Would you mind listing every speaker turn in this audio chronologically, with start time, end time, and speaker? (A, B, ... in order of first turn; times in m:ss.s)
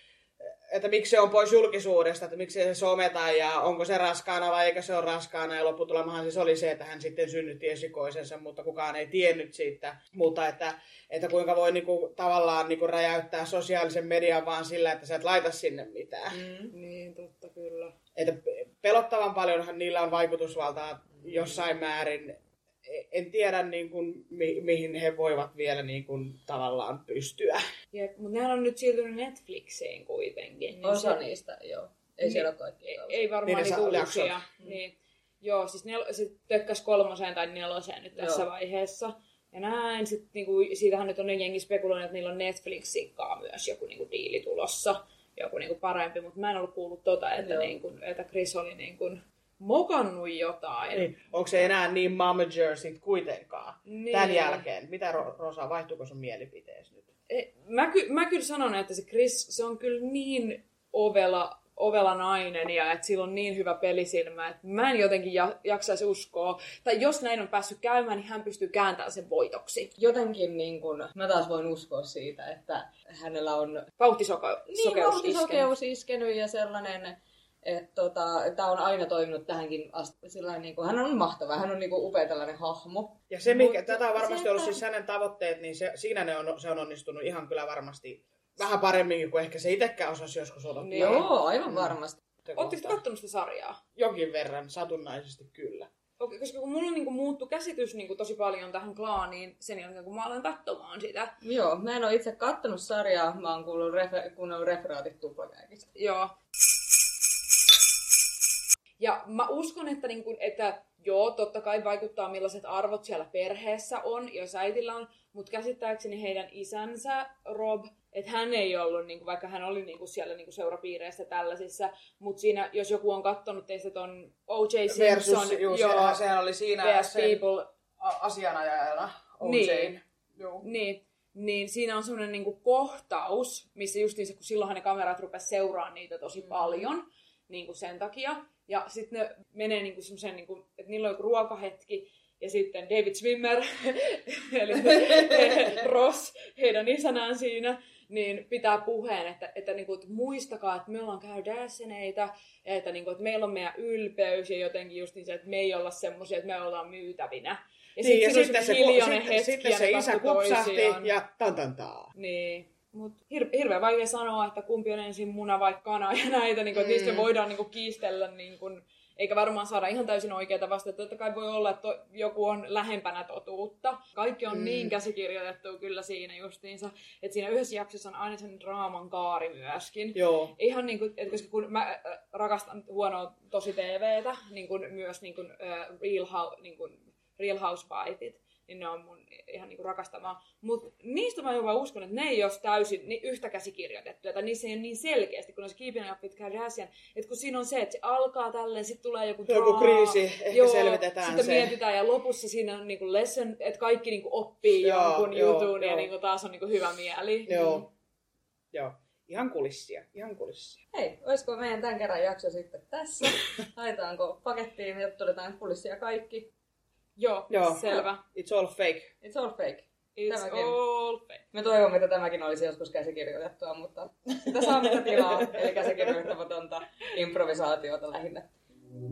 0:00.4-0:16.4 A
0:16.3-0:16.7 B
0:16.7-0:17.9 C
0:18.2-0:27.6 A
0:27.9-0:31.2 C
0:30.8-0:33.3 B
0:32.2-0:51.1 C
0:33.4-0:34.4 A
0:38.2-0:38.4 B
0:47.4-0:47.7 B
0:50.9-0:57.1 A
0:53.8-0:54.7 C
0:57.3-1:09.9 C
1:10.0-1:13.9 B
1:14.0-1:15.7 C
1:14.7-1:23.3 B
1:23.3-1:32.0 A
1:23.4-1:24.0 C
1:24.0-1:24.8 B
1:30.8-1:31.3 C
1:30.9-1:32.6 B
1:32.5-1:33.0 A
1:32.6-1:33.8 C
1:34.0-1:35.9 A
1:36.2-1:41.3 C
1:41.4-1:45.9 B
1:46.0-1:46.3 C
1:49.0-2:06.2 C
2:04.9-2:07.4 A
2:06.8-2:07.7 C
2:08.0-2:10.7 A
2:09.4-2:10.0 C
2:10.6-2:41.1 C
2:38.0-2:42.1 A
2:42.1-3:27.9 C
2:54.5-2:54.9 A
3:00.1-3:00.5 A
3:19.5-3:21.8 A
3:24.8-3:26.1 A
3:27.5-3:27.9 A
3:28.7-3:30.8 A
3:30.9-3:36.5 B
3:37.2-3:38.2 C
3:37.5-3:39.1 A
3:39.2-3:40.8 B
3:40.2-3:41.4 C
3:41.5-3:48.5 B
3:44.9-3:45.8 A